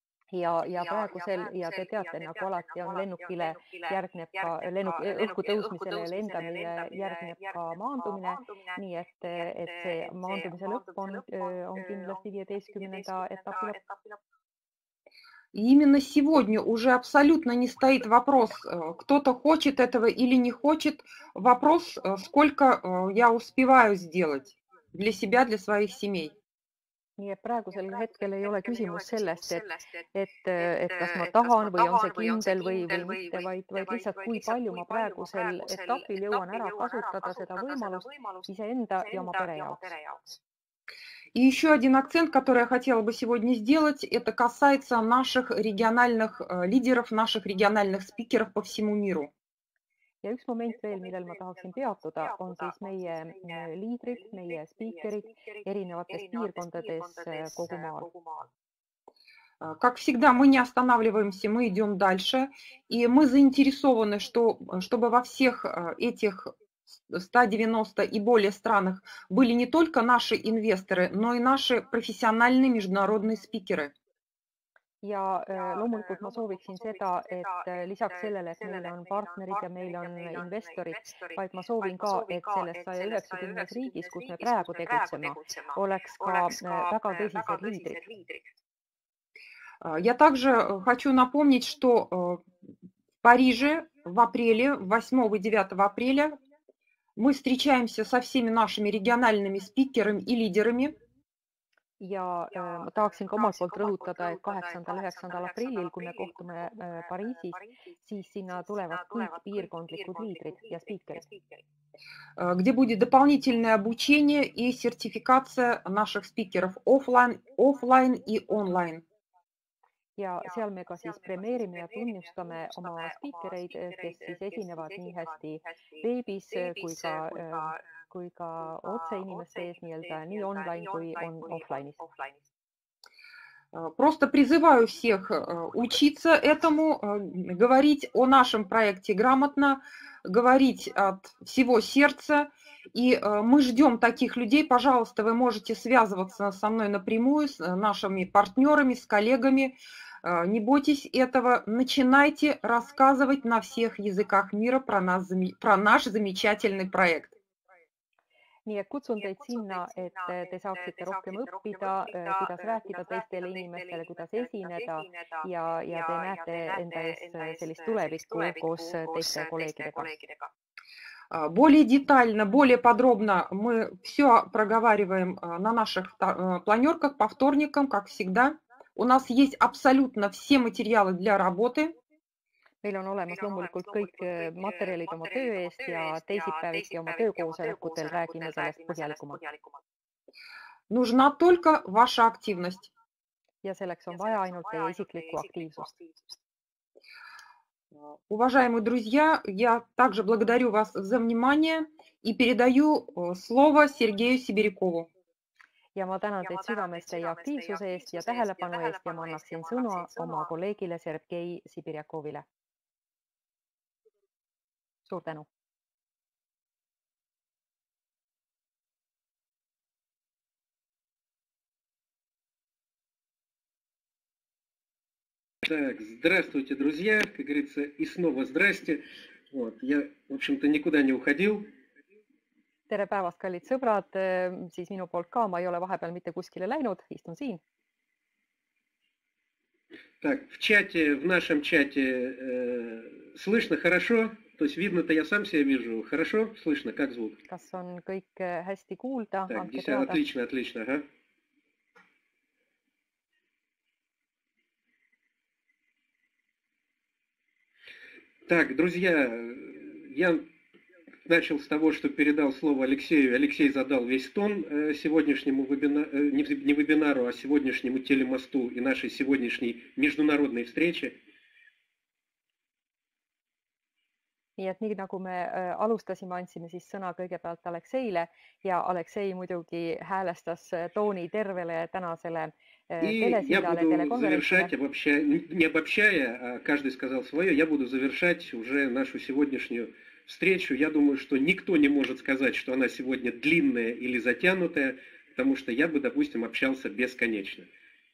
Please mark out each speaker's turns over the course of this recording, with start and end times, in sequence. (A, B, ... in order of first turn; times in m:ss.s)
0:00.3-0:13.8 A
0:15.5-0:26.3 B
0:27.2-0:40.0 A
0:41.4-0:49.3 B
0:50.2-0:58.1 A
0:59.6-1:06.5 B
1:07.1-1:13.9 B
1:15.0-1:28.1 A
1:29.8-1:32.4 B
1:33.2-1:36.4 B
1:37.2-1:41.0 B
1:42.0-1:51.3 A
1:52.4-1:59.0 B
2:00.2-2:12.0 A
2:13.7-2:37.4 B
2:38.7-2:50.2 A
2:51.3-3:02.0 B
3:02.8-3:09.5 A
3:10.9-3:12.9 B
3:13.6-3:16.0 A
3:18.1-3:25.1 B
3:26.0-3:32.4 A
3:35.1-3:35.5 A
3:45.6-3:51.7 C
3:52.9-3:57.6 A
4:00.2-4:07.4 C
4:07.5-4:10.2 A
4:09.5-4:11.0 C
4:18.5-4:20.5 C
4:21.3-4:31.2 C
4:34.6-4:44.7 A
4:43.0-4:57.7 C